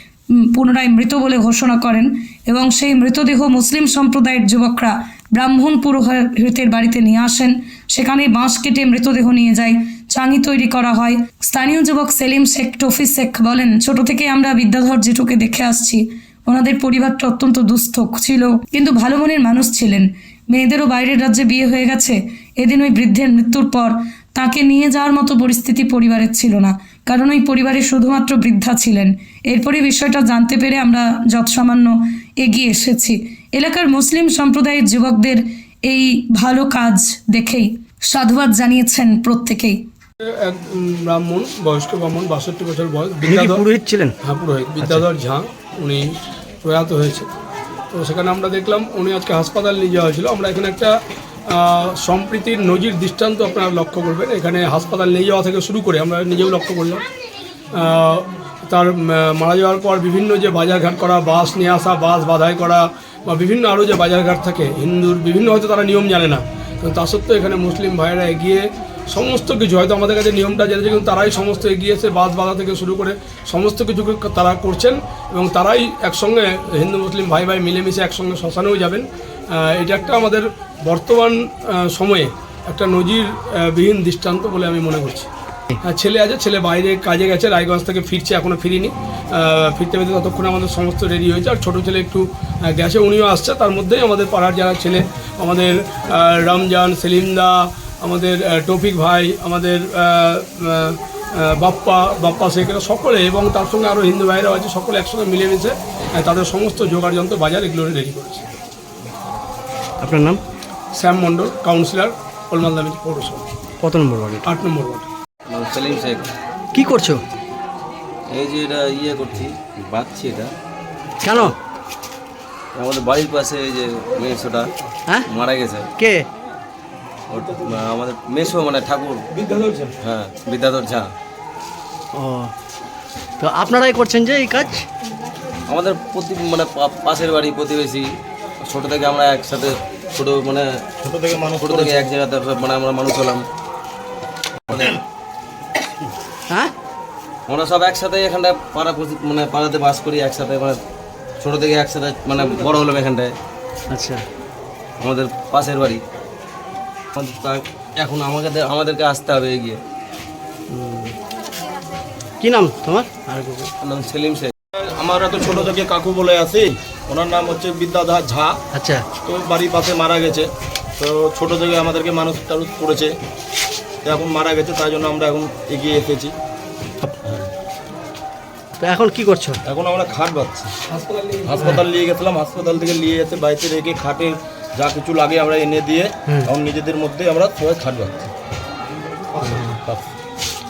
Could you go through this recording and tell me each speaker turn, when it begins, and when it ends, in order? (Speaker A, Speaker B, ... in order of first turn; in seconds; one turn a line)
Speaker A: 0.4-39.8
Speaker B: 40.2-43.6
Speaker C: 43.3-44.2
Speaker B: 44.2-47.3
Speaker B: 47.9-50.9
Speaker B: 51.5-57.0
Speaker B: 57.7-85.3
Speaker B: 85.8-108.5
Speaker C: 110.0-110.4
Speaker B: 111.0-113.4
Speaker C: 113.8-114.5
Speaker B: 114.5-115.1
Speaker D: 115.5-116.3
Speaker C: 116.7-117.2
Speaker D: 118.3-120.5
Speaker C: 121.2-121.5
Speaker D: 122.8-124.7
Speaker D: 125.3-125.9
Speaker C: 126.0-126.2
Speaker D: 127.3-129.2
Speaker E: 129.5-129.9
Speaker D: 130.0-131.1
Speaker C: 132.1-132.5
Speaker C: 133.4-134.9
Speaker D: 135.7-138.1
Speaker D: 138.7-140.7
Speaker E: 141.0-142.1
Speaker D: 141.5-143.4
Speaker D: 144.7-145.0
Speaker D: 147.5-150.8
Speaker D: 151.4-153.3
Speaker C: 153.9-154.2
Speaker D: 155.0-156.0
Speaker D: 157.2-159.8
Speaker C: 160.7-161.2
Speaker C: 162.4-163.7
Speaker D: 163.8-164.5
Speaker E: 164.8-168.6
Speaker C: 168.7-169.1
Speaker E: 169.2-173.1
Speaker E: 174.0-176.3
Speaker E: 177.2-177.5
Speaker C: 178.8-179.6
Speaker E: 179.7-180.8
Speaker B: 180.9-181.8
Speaker E: 181.5-188.3
Speaker E: 189.4-190.1